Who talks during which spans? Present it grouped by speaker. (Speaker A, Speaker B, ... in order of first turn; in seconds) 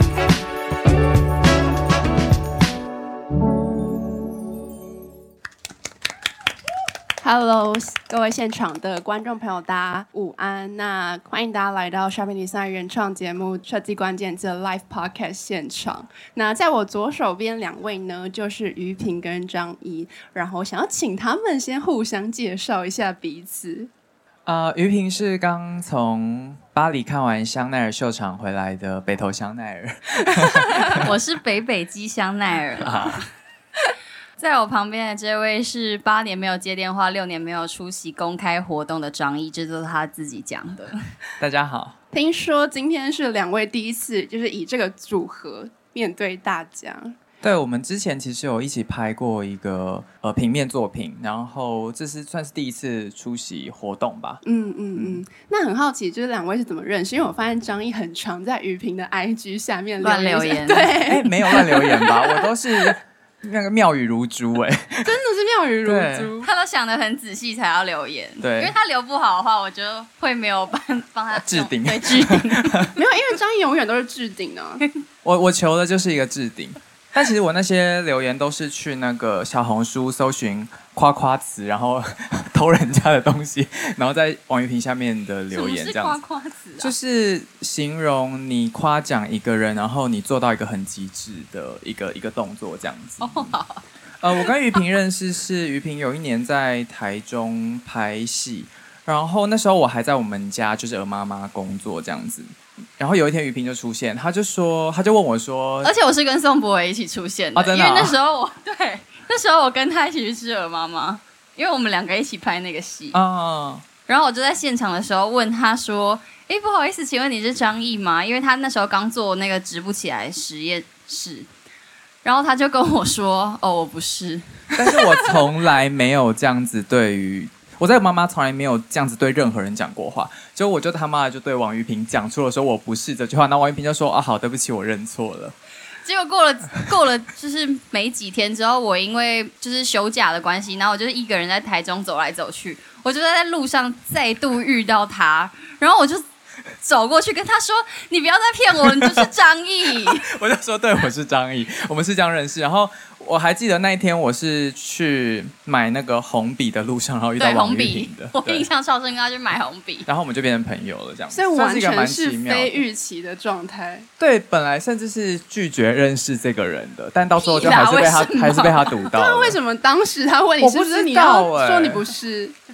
Speaker A: 7.2-23.9, 42.1-47.2, 54.4-62.5, 65.0-66.5, 73.0-74.8, 161.3-164.1, 169.1-172.6
Speaker B: 24.5-31.1, 32.8-33.2, 41.4-42.0, 47.4-54.4, 61.0-65.1, 65.8-66.3, 68.4-68.7, 71.4-72.9, 75.2-86.2, 86.8-93.5, 94.2-105.9, 107.5-108.2, 113.1-113.8, 124.8-135.6, 149.0-149.3, 150.0-158.7, 160.1-162.8, 164.2-169.6, 170.6-172.0
Speaker C: 30.9-33.2, 34.4-41.0, 60.0-61.0, 66.4-73.0, 85.5-86.9, 93.2-93.8, 105.8-113.2, 114.1-121.5, 122.2-125.3, 136.0-146.2, 146.8-150.2, 157.4-160.1, 167.4-168.9